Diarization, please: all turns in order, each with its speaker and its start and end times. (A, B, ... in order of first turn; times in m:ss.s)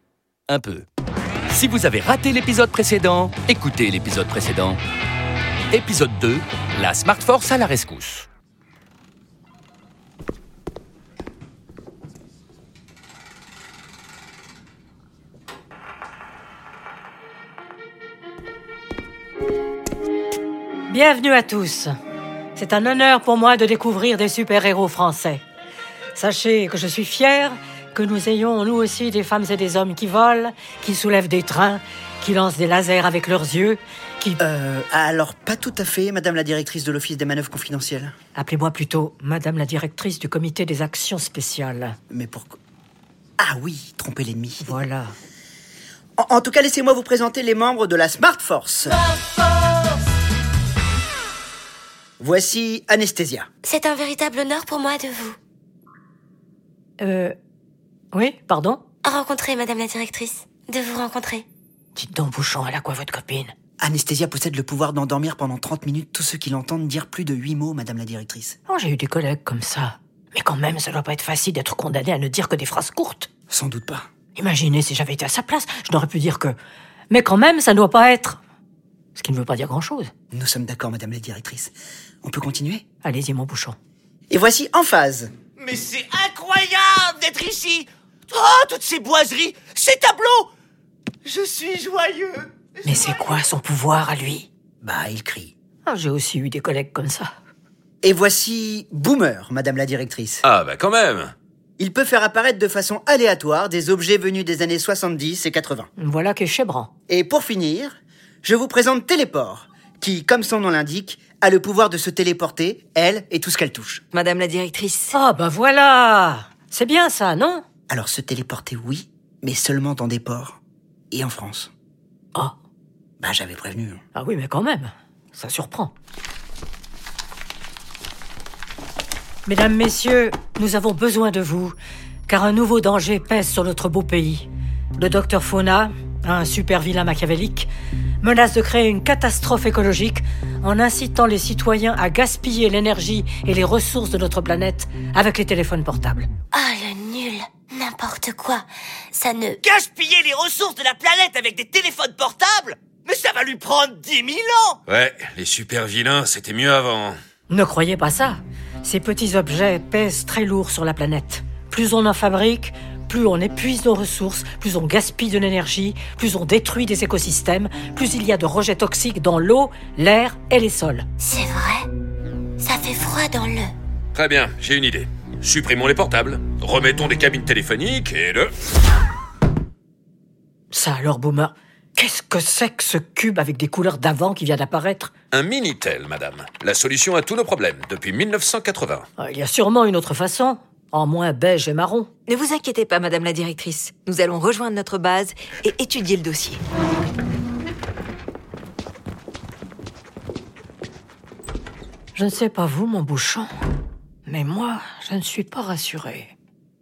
0:00.5-0:00.8 A
0:01.5-0:04.8 A
0:05.7-0:08.3 A
0:20.9-0:21.9 B
0:22.6-0:25.4 B
0:26.1-0:34.4 B
0:34.4-0:38.1 C
0:38.3-0:42.0 B
0:42.1-0:42.6 C
0:43.4-0:44.7 C
0:44.6-0:45.1 B
0:46.2-0:49.0 C
0:52.2-0:53.5 C
0:53.6-0:55.4 D
0:57.0-0:57.3 B
0:58.1-0:58.8 B
0:59.0-1:01.4 D
1:01.9-1:03.5 B
1:03.8-1:08.6 C
1:08.7-1:13.3 B
1:13.5-1:14.1 C
1:14.3-1:16.6 B
1:17.1-1:18.4 B
1:19.2-1:20.1 B
1:20.3-1:22.8 C
1:23.0-1:23.8 B
1:24.3-1:25.3 C
1:25.6-1:30.5 E
1:31.2-1:33.0 E
1:32.8-1:34.5 B
1:34.8-1:35.5 C
1:35.8-1:37.3 B
1:38.0-1:40.4 C
1:40.4-1:41.3 F
1:41.8-1:45.9 C
1:46.0-1:46.9 B
1:47.1-1:54.0 C
1:54.1-1:55.1 G
1:55.1-1:57.6 B
1:57.9-2:00.6 C
2:01.1-2:01.7 C
2:03.2-2:04.0 C
2:04.1-2:05.9 B
2:09.4-2:11.8 B
2:12.3-2:17.7 B
2:18.2-2:26.3 B
2:26.5-2:29.6 D
2:29.6-2:34.8 E
2:34.9-2:37.2 F
2:37.5-2:51.0 B
2:51.2-2:51.8 D
2:52.6-2:53.7 D
2:54.2-2:58.5 F
3:00.7-3:05.1 B
3:05.3-3:09.1 F
3:09.2-3:12.1 B
3:12.3-3:16.6 G
3:22.2-3:23.5 B
3:24.3-3:26.3 B